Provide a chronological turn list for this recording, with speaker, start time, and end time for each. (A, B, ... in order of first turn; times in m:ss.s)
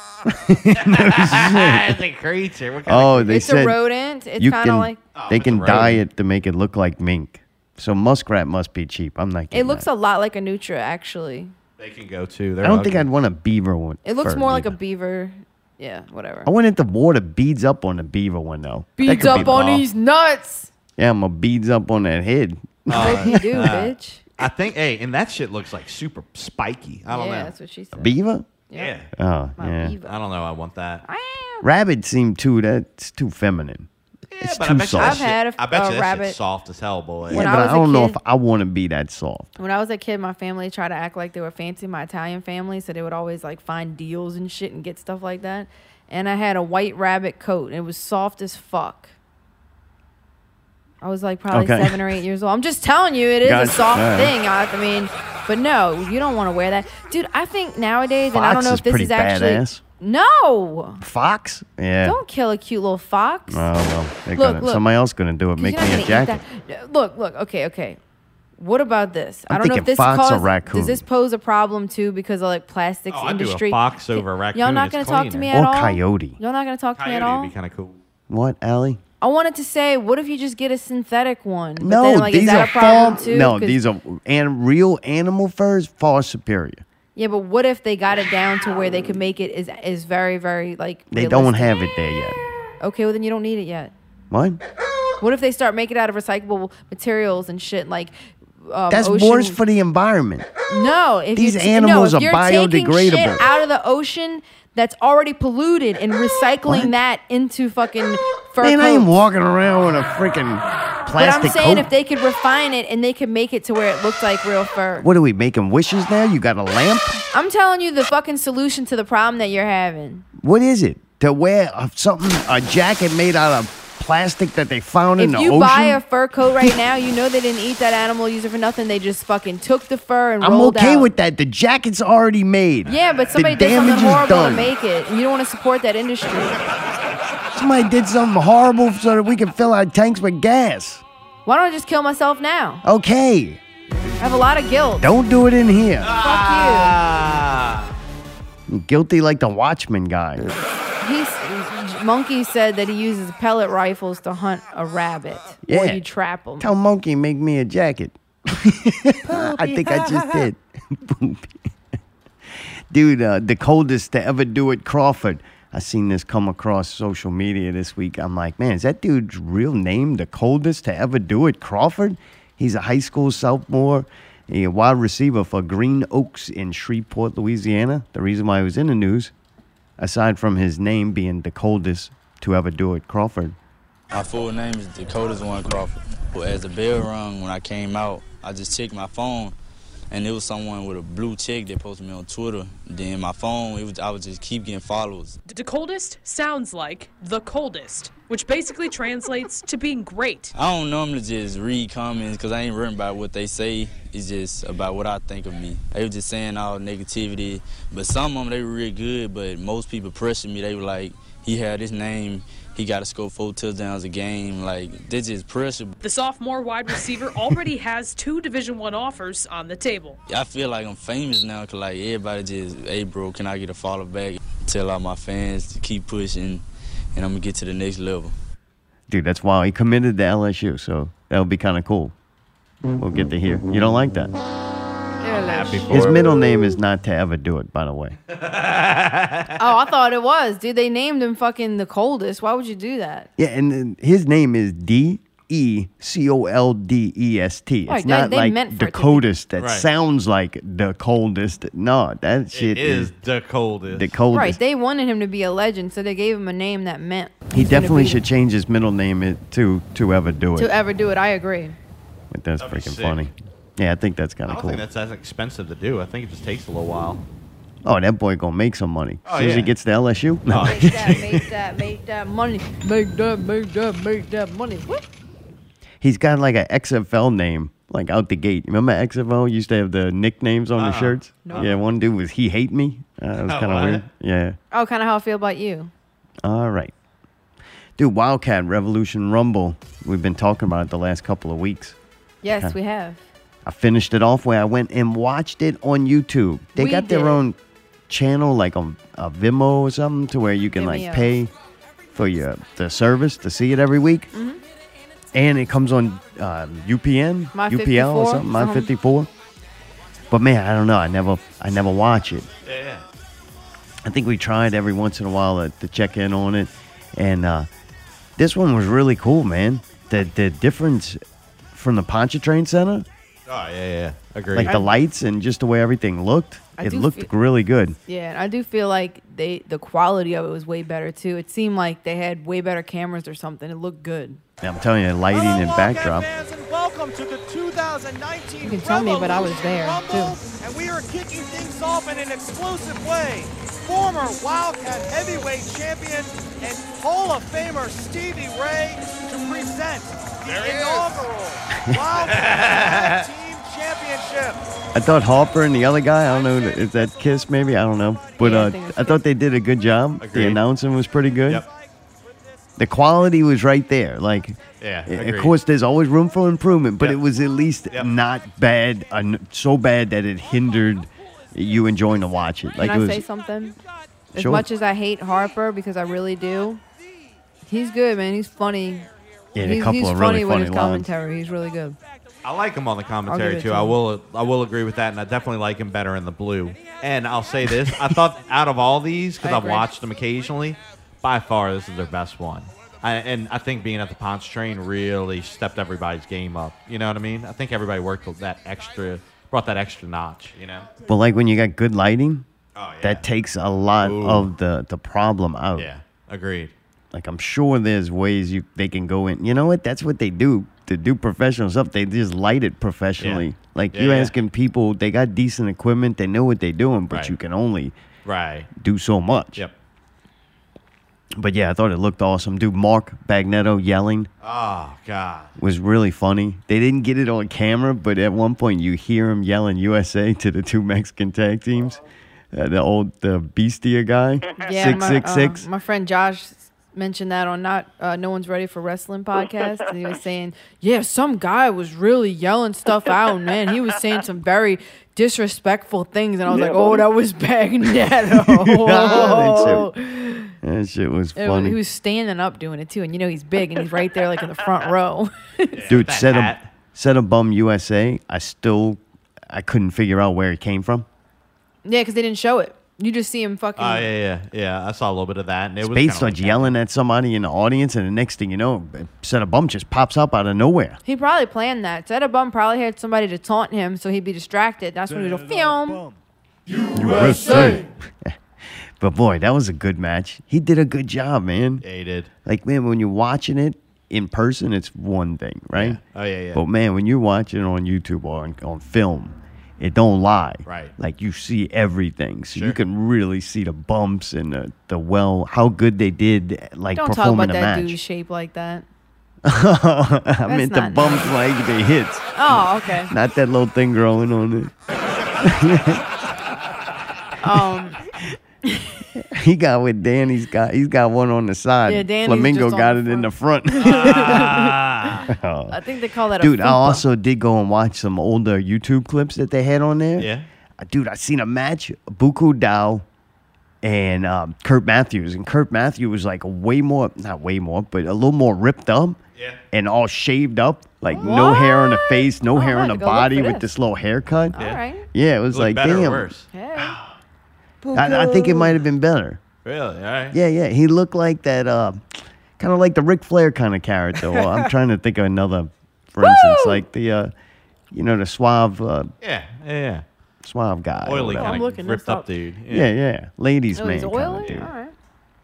0:00.2-0:02.0 A
0:00.8-0:03.4 B
0:02.8-0:03.8 A
0:03.3-0:05.0 C
0:04.4-0:09.9 A
0:05.1-0:06.0 B
0:09.5-0:11.5 C
0:11.8-0:13.0 B
0:12.6-0:14.7 A
0:14.0-0:16.5 C
0:16.4-0:19.7 A
0:19.0-0:20.7 C
0:19.0-0:19.8 B
0:21.0-0:23.8 A
0:22.9-0:27.5 B
0:22.9-0:24.2 C
0:27.1-0:28.1 C
0:27.9-0:28.5 A
0:28.7-0:29.1 B
0:29.2-0:29.9 A
0:29.6-0:30.1 C
0:30.0-0:31.0 B
0:31.0-0:31.7 C
0:31.6-0:33.9 A
0:34.3-0:37.4 B
0:34.4-0:35.2 A
0:35.0-0:36.4 C
0:37.3-0:39.5 A
0:37.3-0:38.2 C
0:39.6-0:49.1 C
0:51.0-1:01.0 C
0:51.5-0:52.1 A
0:53.4-0:54.3 A
0:58.3-0:59.8 A
1:01.0-1:02.2 A
1:02.0-1:03.6 C
1:03.5-1:06.4 A
1:04.3-1:04.8 C
1:05.6-1:08.0 C
1:08.6-1:17.5 C
1:09.5-1:11.0 A
1:13.1-1:15.5 B
1:15.5-1:16.4 A
1:17.0-1:18.0 B
1:18.3-1:19.0 A
1:19.2-1:23.8 C
1:21.8-1:26.8 A
1:27.1-1:31.7 C
1:31.1-1:32.4 A
1:32.8-1:33.9 C
1:34.3-1:34.6 A
1:35.2-1:39.6 C
1:38.9-1:40.5 A
1:40.7-1:49.1 C
1:41.3-1:43.4 A
1:46.6-1:46.9 A
1:48.6-1:51.9 A
1:51.2-1:55.1 C
1:55.0-1:57.2 A
1:57.3-2:00.2 C
2:00.4-2:06.0 A
2:05.2-2:11.1 C
2:10.4-2:14.7 A
2:12.9-2:16.6 C
2:17.5-2:21.0 A
2:21.4-2:22.8 C
2:22.8-2:23.6 A
2:24.2-2:25.1 C
2:25.0-2:26.1 A
2:26.0-2:27.9 B
2:26.1-2:27.0 C
2:28.7-2:30.5 A
2:31.0-2:36.7 C
2:35.6-2:36.0 A
2:36.6-2:41.6 A
2:42.9-2:59.3 A
3:00.0-3:03.6 A
3:04.1-3:09.5 D
3:10.1-3:15.4 D
3:15.4-3:20.5 E
3:20.6-3:35.9 D
3:36.0-3:40.2 E
3:40.3-3:46.6 D
3:47.1-3:48.3 D
3:49.1-3:52.1 A
3:53.0-3:54.3 A
3:55.2-3:56.2 C
3:55.2-3:56.3 B
3:55.9-3:58.2 A
3:58.3-3:59.6 B
3:59.6-4:03.3 C
4:03.4-4:13.1 A
4:07.9-4:09.2 C
4:09.6-4:09.9 B
4:12.5-4:14.1 B
4:13.9-4:14.6 A
4:14.3-4:18.2 C
4:17.5-4:20.7 A
4:20.6-4:21.8 C
4:22.3-4:24.8 A
4:22.6-4:23.2 B
4:24.4-4:27.2 B
4:27.8-4:31.2 A
4:29.2-4:29.7 B
4:30.5-4:31.4 B
4:30.6-4:35.0 C
4:36.0-4:44.6 A
4:40.8-4:41.8 B
4:41.4-4:41.7 C
4:43.4-4:44.0 B
4:44.7-4:45.9 C
4:46.4-4:46.9 A
4:48.0-4:52.0 A
4:52.4-4:53.2 C
4:53.6-4:57.6 A
4:56.7-4:57.4 C
4:58.1-5:01.5 A
5:00.8-5:01.3 C
5:02.1-5:04.3 A
5:04.3-5:04.6 C
5:05.3-5:09.3 A
5:07.5-5:08.9 C
5:10.3-5:12.5 A
5:12.6-5:13.0 B
5:14.0-5:17.7 A
5:18.4-5:21.2 A
5:21.7-5:23.0 A
5:23.5-5:24.7 B
5:24.5-5:28.0 A
5:24.6-5:24.9 C
5:26.8-5:27.3 C
5:28.1-5:34.4 C
5:34.6-5:36.2 A
5:35.3-5:54.6 F
5:38.6-5:40.4 C
5:50.5-5:51.2 B
5:52.2-5:53.2 B
5:54.9-6:01.6 A
5:58.4-5:59.2 C
6:00.2-6:00.6 B
6:02.8-6:13.2 A
6:04.8-6:05.5 B
6:12.8-6:13.8 C
6:14.3-6:16.8 C
6:14.3-6:14.6 A
6:17.6-6:19.1 C
6:19.5-6:21.1 A
6:19.6-6:22.0 C
6:22.4-6:40.9 B
6:23.3-6:24.0 C
6:27.7-6:28.0 A
6:29.4-6:29.9 C
6:41.0-6:42.4 A
6:42.8-6:43.3 B
6:43.0-6:45.9 A
6:44.0-6:44.5 B
6:45.8-6:46.7 B
6:47.1-6:57.9 A
6:53.2-6:54.3 B
6:58.2-6:58.7 B
6:58.7-6:59.6 A
7:01.4-7:04.3 A
7:04.4-7:05.5 B
7:05.6-7:12.0 A
7:12.5-7:15.6 A
7:14.6-7:30.5 C
7:28.5-7:29.9 A
7:30.6-7:31.8 A
7:31.4-7:35.8 C
7:35.7-7:36.7 B
7:35.9-7:41.0 A
7:41.8-7:44.1 C
7:43.8-7:46.7 B
7:45.8-7:51.0 A
7:51.0-7:56.0 C
7:56.9-7:58.3 A
7:57.1-7:57.8 C
7:59.0-8:01.8 A
8:01.8-8:02.3 B
8:02.4-8:06.0 A
8:05.7-8:06.6 B
8:06.5-8:18.0 A
8:10.6-8:10.9 B
8:12.5-8:12.8 B
8:16.9-8:18.9 C
8:19.4-8:24.7 A
8:20.5-8:21.3 C
8:22.3-8:23.1 C
8:25.4-8:26.0 A
8:27.4-8:28.0 C
8:28.6-8:28.9 C
8:29.2-8:34.6 A
8:31.8-8:34.8 C
8:33.8-8:35.2 B
8:35.3-8:35.8 A
8:35.7-8:37.0 C
8:36.4-8:43.0 A
8:40.2-8:40.4 B
8:43.8-8:49.2 A
8:49.7-8:54.5 A
8:51.1-8:53.7 C
8:54.5-8:55.0 C
8:55.1-8:56.3 A
8:55.5-8:56.4 B
8:56.5-8:57.0 C
8:57.8-8:58.8 C
8:57.9-8:59.4 A
8:59.6-9:00.4 B
9:00.3-9:07.3 A
9:06.2-9:06.8 C
9:07.9-9:09.1 A
9:09.2-9:10.0 B
9:10.4-9:11.6 A
9:11.0-9:12.9 B
9:11.4-9:12.3 C
9:12.7-9:14.7 A
9:13.7-9:14.9 C